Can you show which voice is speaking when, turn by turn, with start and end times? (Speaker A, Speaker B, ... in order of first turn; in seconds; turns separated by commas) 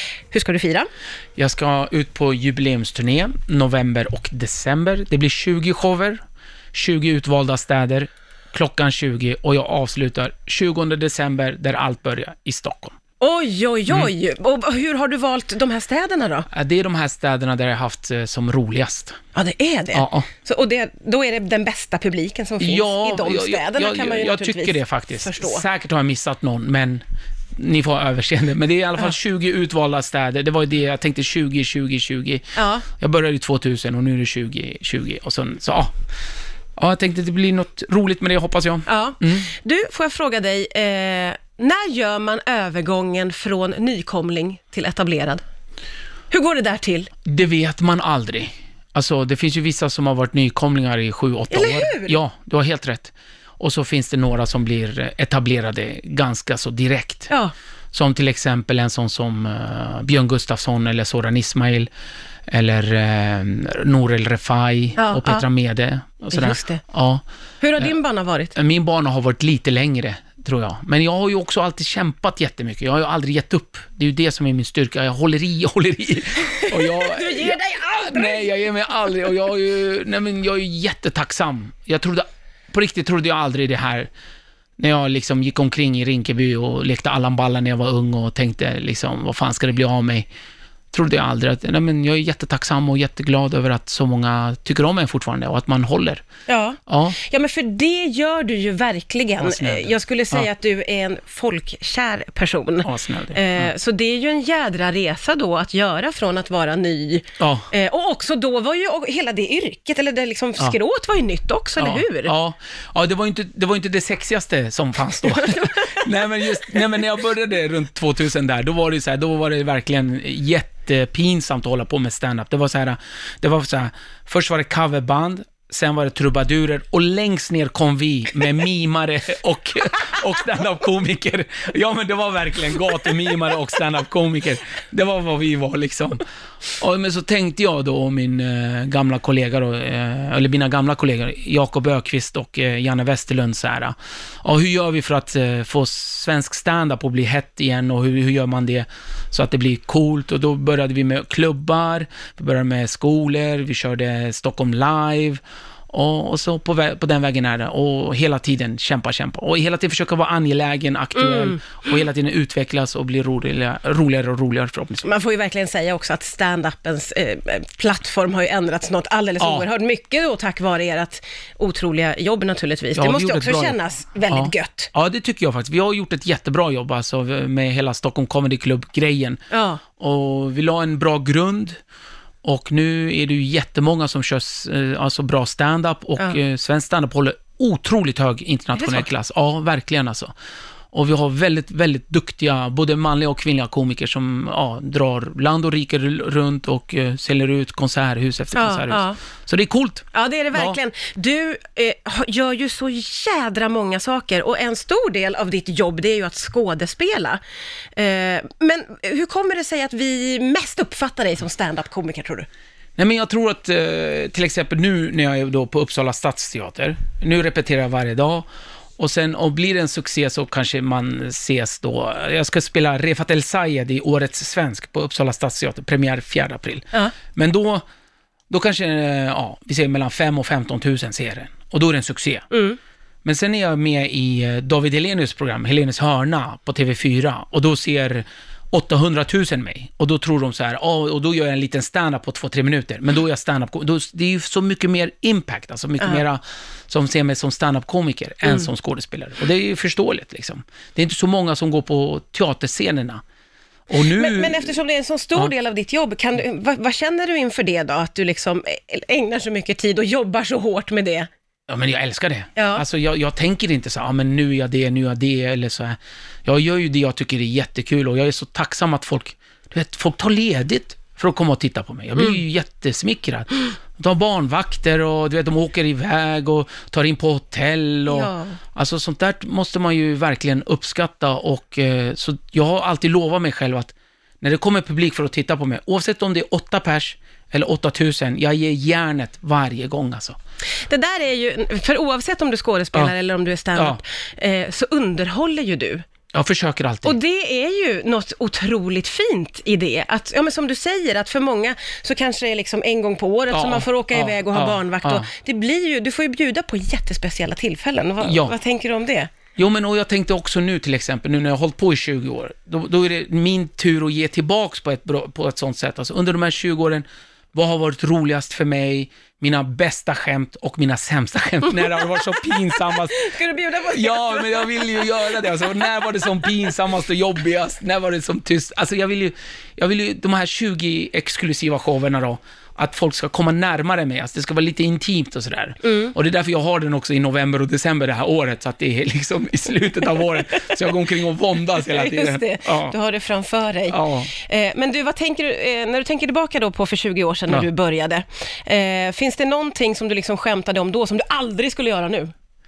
Speaker A: 0.3-0.9, Speaker B: 1.4-6.2, Speaker B: 6.7-13.0, Speaker A: 13.2-16.5, Speaker B: 16.5-19.2, Speaker A: 19.4-25.6, Speaker B: 19.9-20.3, Speaker B: 22.6-27.0, Speaker B: 27.6-35.9, Speaker A: 32.6-32.9, Speaker B: 36.8-39.5, Speaker A: 38.9-45.4, Speaker A: 46.3-47.1, Speaker B: 47.2-57.3, Speaker A: 51.5-52.2, Speaker B: 57.9-61.9, Speaker B: 62.5-67.2, Speaker A: 65.0-65.5, Speaker A: 66.3-66.8, Speaker A: 67.6-68.5, Speaker B: 68.5-84.1, Speaker A: 76.5-78.5, Speaker B: 84.8-90.3, Speaker B: 90.9-96.2, Speaker A: 96.5-112.3, Speaker B: 96.9-97.2, Speaker B: 99.4-100.5, Speaker B: 102.8-103.7, Speaker B: 107.4-107.7, Speaker B: 111.8-136.2, Speaker B: 136.8-165.1, Speaker A: 165.0-174.9, Speaker B: 169.4-169.7, Speaker B: 172.9-173.8, Speaker B: 174.3-179.4, Speaker A: 179.5-179.8, Speaker B: 180.0-181.8, Speaker B: 182.4-190.3, Speaker A: 188.8-189.1, Speaker B: 190.9-200.8, Speaker A: 198.5-199.2, Speaker A: 200.1-207.4, Speaker A: 207.9-212.5, Speaker B: 213.0-218.5, Speaker B: 219.0-227.8, Speaker B: 228.5-232.5, Speaker A: 232.5-232.8, Speaker B: 233.2-253.2, Speaker B: 253.9-254.8, Speaker A: 254.0-261.3, Speaker B: 261.7-290.4, Speaker A: 262.6-262.8, Speaker A: 278.1-278.6, Speaker A: 290.9-296.1, Speaker B: 296.3-297.2, Speaker A: 297.1-309.3, Speaker B: 303.5-305.3, Speaker B: 308.2-308.6, Speaker B: 309.6-323.3, Speaker A: 322.8-325.9, Speaker B: 323.9-342.9, Speaker A: 335.9-336.1, Speaker A: 341.8-352.3, Speaker B: 343.9-344.3